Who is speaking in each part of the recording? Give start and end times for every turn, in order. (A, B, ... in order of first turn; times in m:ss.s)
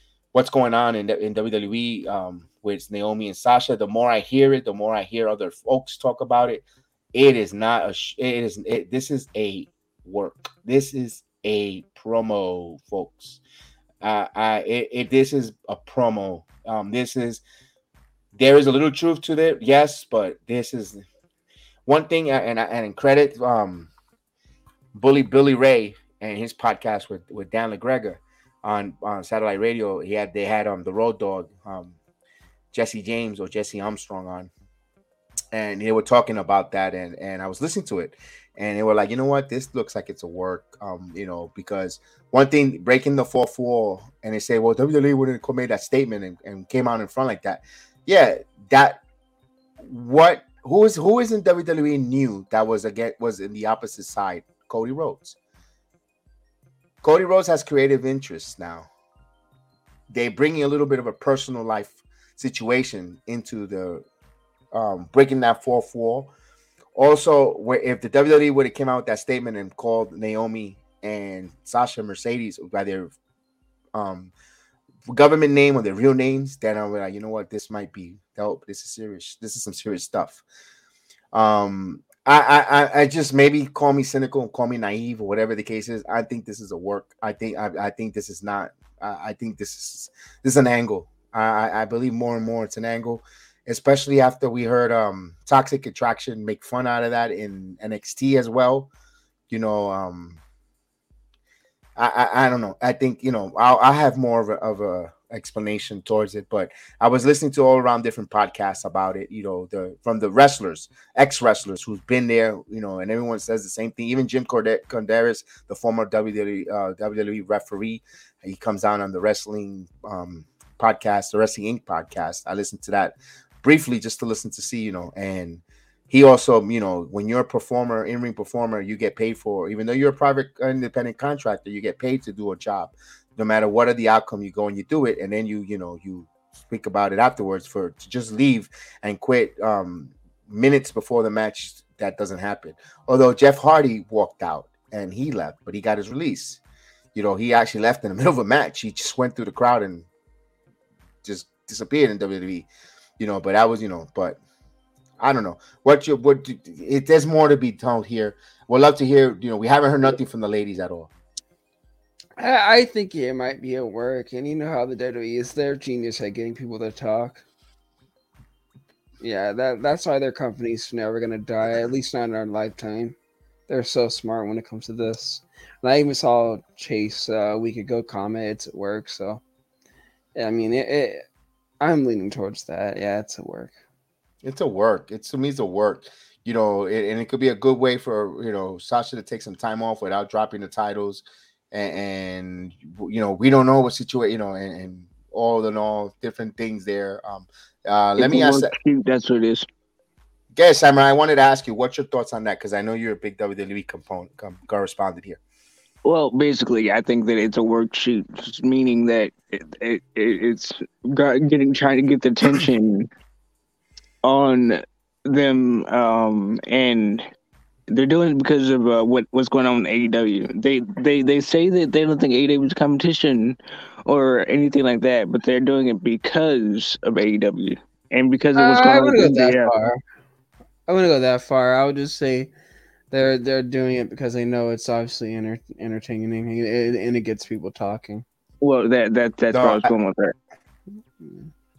0:00.3-0:13.4 A
0:14.0-0:17.4 A
0:18.4-0:21.0 A
0:21.9-0:23.9 A
0:24.9-0:32.0 A
0:32.7-0:34.5 A
0:35.5-0:49.0 A
0:49.8-0:55.4 A
0:57.0-0:58.9 A
1:00.1-1:04.0 A
1:04.7-1:06.3 A
1:07.0-1:13.2 A
1:13.9-1:14.3 A
1:15.1-1:20.4 A
1:21.3-1:38.9 A
1:39.5-1:40.4 A
1:42.0-2:26.6 A
2:27.2-2:30.1 A
2:31.2-2:32.7 A
2:33.2-2:34.4 A
2:35.2-2:41.1 A
2:42.4-2:47.4 B
2:49.2-2:53.2 B
2:53.7-2:59.4 B
3:00.4-3:01.2 B
3:01.8-3:03.7 B
3:04.4-3:18.7 A
3:18.2-3:19.7 C
3:20.6-3:25.4 A
3:26.0-3:33.1 C
3:34.2-3:37.2 C
3:37.9-3:49.7 C
3:48.6-3:50.0 B
3:50.9-3:52.5 B
3:53.1-3:58.2 B
3:58.6-4:00.3 C
3:59.5-3:59.9 A
4:01.2-4:01.5 B